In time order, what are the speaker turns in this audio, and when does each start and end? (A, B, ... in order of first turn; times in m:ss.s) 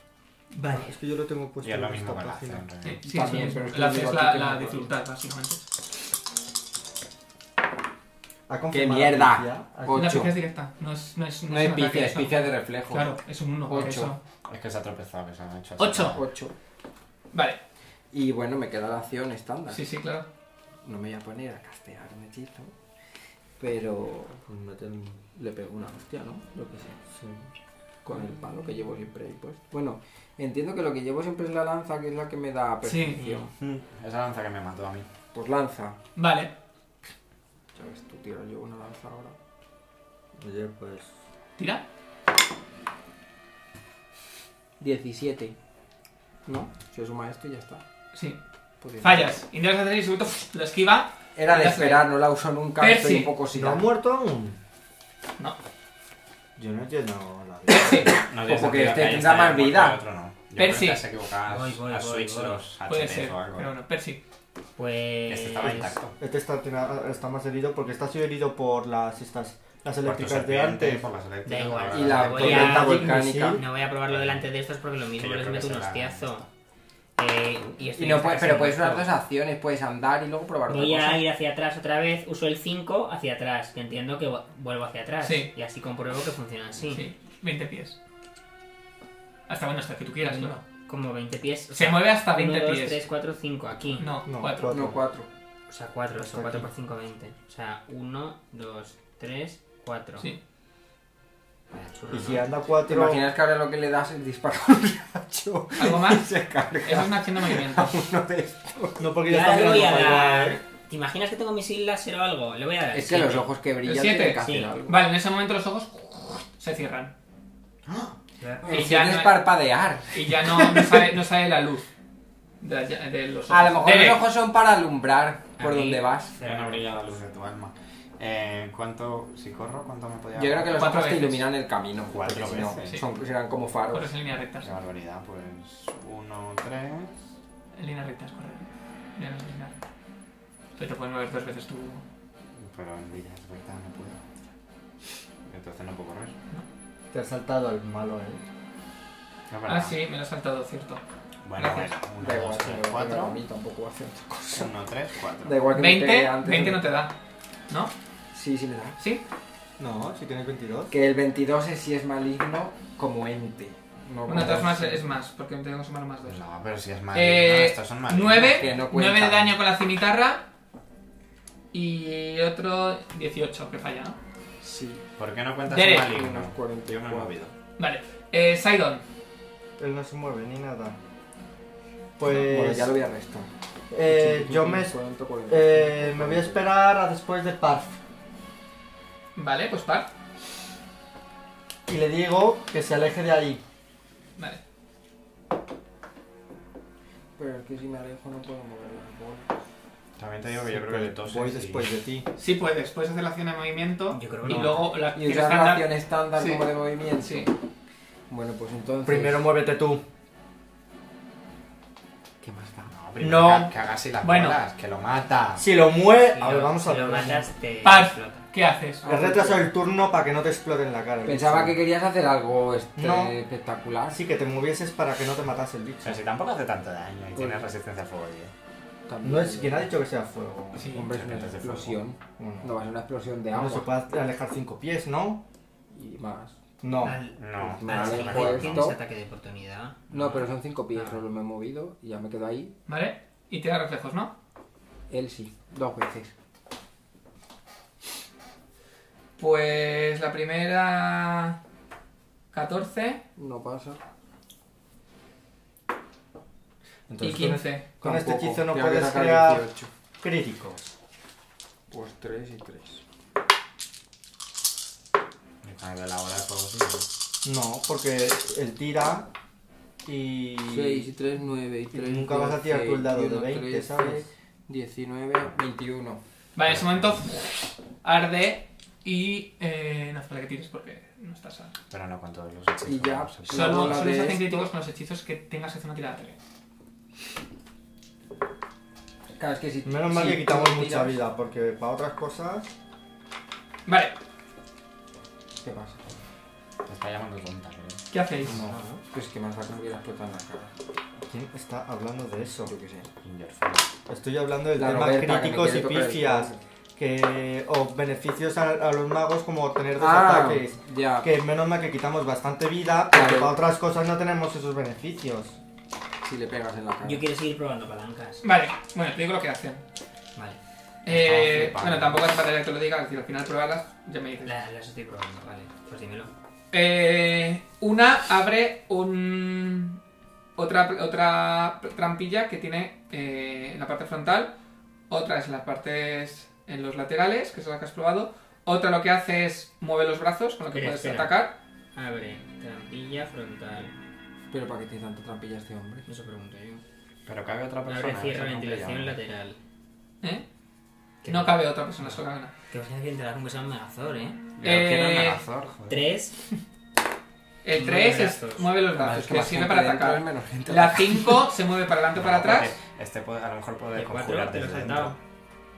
0:00.5-0:00.9 A
0:00.7-0:02.6 B
0:01.6-0:03.0 C
0:02.8-0:05.6 A
0:03.0-0:04.9 D
0:03.2-0:04.1 B
0:08.5-0:10.3 B
0:08.7-0:10.3 D
0:09.9-0:14.2 A
0:11.5-0:13.2 D
0:13.7-0:14.2 D
0:14.4-0:16.2 C
0:15.8-0:16.2 A
0:16.1-0:16.5 D
0:17.3-0:17.6 A
0:18.1-0:19.8 D
0:19.7-0:20.3 A
0:20.8-0:22.7 D
0:23.6-0:24.5 D
0:24.5-0:25.2 B
0:25.2-0:27.0 D
0:27.1-0:27.4 B
0:28.0-0:33.5 D
0:32.8-0:33.2 A
0:33.2-0:33.5 E
0:33.6-0:35.1 C
0:35.3-0:36.0 D
0:36.2-0:36.5 A
0:37.7-0:39.4 D
0:40.4-0:41.1 B
0:41.6-0:41.8 A
0:44.8-0:45.6 D
0:46.5-0:47.8 D
0:48.1-0:48.4 A
0:48.8-0:49.3 D
0:49.0-0:52.1 A
0:51.4-0:53.9 D
0:52.8-0:53.4 A
0:53.5-0:54.6 B
0:56.6-0:58.3 B
0:57.7-0:58.2 A
0:57.8-1:00.0 D
0:58.3-1:03.7 C
1:00.6-1:01.0 A
1:01.5-1:02.6 E
1:02.9-1:04.2 A
1:04.8-1:06.0 E
1:05.3-1:06.1 C
1:06.2-1:11.0 B
1:10.0-1:12.7 C
1:11.4-1:16.4 E
1:11.9-1:13.6 D
1:12.3-1:13.6 B
1:14.1-1:14.4 C
1:15.2-1:16.5 C
1:17.2-1:19.1 E
1:18.0-1:21.2 D
1:20.7-1:27.0 E
1:25.2-1:25.5 A
1:26.9-1:28.0 A
1:29.5-1:30.6 A
1:30.3-1:34.1 E
1:31.7-1:33.0 A
1:34.0-1:34.7 A
1:34.3-1:35.0 B
1:34.7-1:35.3 D
1:35.7-1:40.3 E
1:36.2-1:36.7 B
1:41.7-1:42.5 E
1:42.1-1:43.3 B
1:42.9-1:49.7 D
1:45.8-1:46.3 A
1:46.8-1:48.0 A
1:49.0-1:50.6 B
1:49.3-1:53.5 E
1:52.9-1:55.0 D
1:53.8-1:57.1 A
1:54.4-1:54.7 E
1:58.4-1:58.8 E
1:58.6-2:01.1 D
1:58.7-1:59.5 A
2:00.1-2:01.9 A
2:02.6-2:04.3 A
2:03.5-2:06.4 D
2:05.6-2:06.9 E
2:06.4-2:10.9 C
2:10.4-2:14.1 D
2:10.7-2:11.5 A
2:12.1-2:13.0 C
2:13.9-2:14.7 A
2:14.6-2:17.2 C
2:17.8-2:19.8 A
2:20.8-2:22.0 A
2:22.6-2:24.2 C
2:25.5-2:26.4 C
2:27.1-2:28.5 B
2:29.5-2:30.0 C
2:29.7-2:31.0 A
2:31.4-2:33.4 C
2:31.6-2:31.9 A
2:32.2-2:34.7 D
2:34.5-2:35.6 C
2:35.4-2:36.8 D
2:35.7-2:37.1 A
2:38.3-2:39.0 D
2:39.8-2:40.9 B
2:40.9-2:45.2 D
2:44.3-2:46.4 A
2:46.3-2:48.8 C
2:47.1-2:50.5 A
2:48.5-2:49.6 D
2:51.7-2:54.2 A
2:54.6-2:55.0 D
2:55.2-2:57.5 C
2:55.7-2:56.1 A
2:56.1-2:57.4 D
2:57.8-2:59.0 A
2:59.8-3:01.0 B
3:02.2-3:03.0 B
3:02.3-3:03.5 D
3:03.9-3:05.0 B
3:04.1-3:06.7 D
3:05.5-3:08.0 B
3:09.4-3:10.1 A
3:11.9-3:13.6 B
3:17.4-3:19.5 D
3:20.2-3:21.9 C
3:20.6-3:22.3 B
3:22.4-3:27.5 A
3:24.1-3:24.9 E
3:25.1-3:27.5 D
3:28.3-3:29.5 D
3:29.0-3:30.0 B
3:32.4-3:32.9 D
3:32.9-3:35.6 C
3:33.2-3:33.7 B
3:34.2-3:34.6 A
3:35.6-3:37.5 B
3:36.3-3:38.4 E
3:37.8-3:39.0 A
3:39.0-3:39.7 D
3:39.1-3:41.8 B
3:41.2-3:44.2 D
3:43.0-3:43.3 B
3:44.1-3:46.2 B
3:46.0-3:48.5 C
3:47.4-3:47.6 D
3:49.1-3:49.9 D
3:49.2-3:51.0 B
3:50.8-3:51.1 A
3:50.8-3:53.9 D
3:51.0-3:52.0 C
3:52.4-3:52.7 B
3:53.5-3:55.4 B
3:55.9-3:56.6 D
3:56.8-3:57.2 B
3:57.0-4:01.2 E
3:57.4-3:58.9 C
3:57.6-3:59.0 D
4:00.1-4:02.8 D
4:02.9-4:04.4 A
4:05.1-4:06.3 D
4:09.4-4:11.6 A
4:12.5-4:13.2 A
4:13.4-4:14.0 D
4:17.1-4:19.7 B
4:17.2-4:17.9 A
4:18.0-4:19.9 D
4:20.2-4:20.9 B
4:21.9-4:23.0 D
4:25.6-4:27.1 C
4:27.4-4:29.3 B
4:30.0-4:31.1 B
4:30.6-4:36.2 D
4:31.9-4:34.2 B
4:36.6-4:41.8 A
4:36.6-4:37.2 C
4:41.9-4:44.0 C
4:42.8-4:44.7 D
4:43.5-4:46.4 A
4:49.4-4:51.2 D
4:49.8-4:52.7 B
4:53.9-4:54.2 A
4:55.6-4:56.1 D
4:56.9-4:58.0 C
4:58.1-4:58.6 A
4:58.5-4:58.8 B
4:58.5-4:59.0 E
4:59.1-5:00.7 D
5:01.3-5:02.7 B
5:02.7-5:03.1 D
5:03.2-5:03.9 C
5:04.1-5:15.6 B
5:04.8-5:06.6 D
5:10.0-5:11.3 D
5:13.1-5:13.6 D
5:16.2-5:17.2 D
5:17.0-5:18.4 E
5:18.4-5:19.8 A
5:21.0-5:24.5 A
5:21.1-5:22.2 C
5:24.4-5:26.3 E
5:26.7-5:30.0 A
5:30.6-5:34.5 A
5:35.1-5:41.6 A
5:40.7-5:43.9 E
5:44.5-5:46.1 D
5:46.1-5:46.8 E
5:47.3-5:49.2 C
5:47.9-5:49.6 E
5:51.2-5:51.6 E
5:51.3-5:52.5 A
5:52.7-5:54.4 E
5:54.6-5:56.0 C
5:54.6-5:55.4 A
5:55.9-5:56.4 E
5:57.6-6:02.8 A
5:57.8-5:58.7 E
5:58.9-6:01.4 D
6:02.2-6:05.2 C
6:04.0-6:05.2 E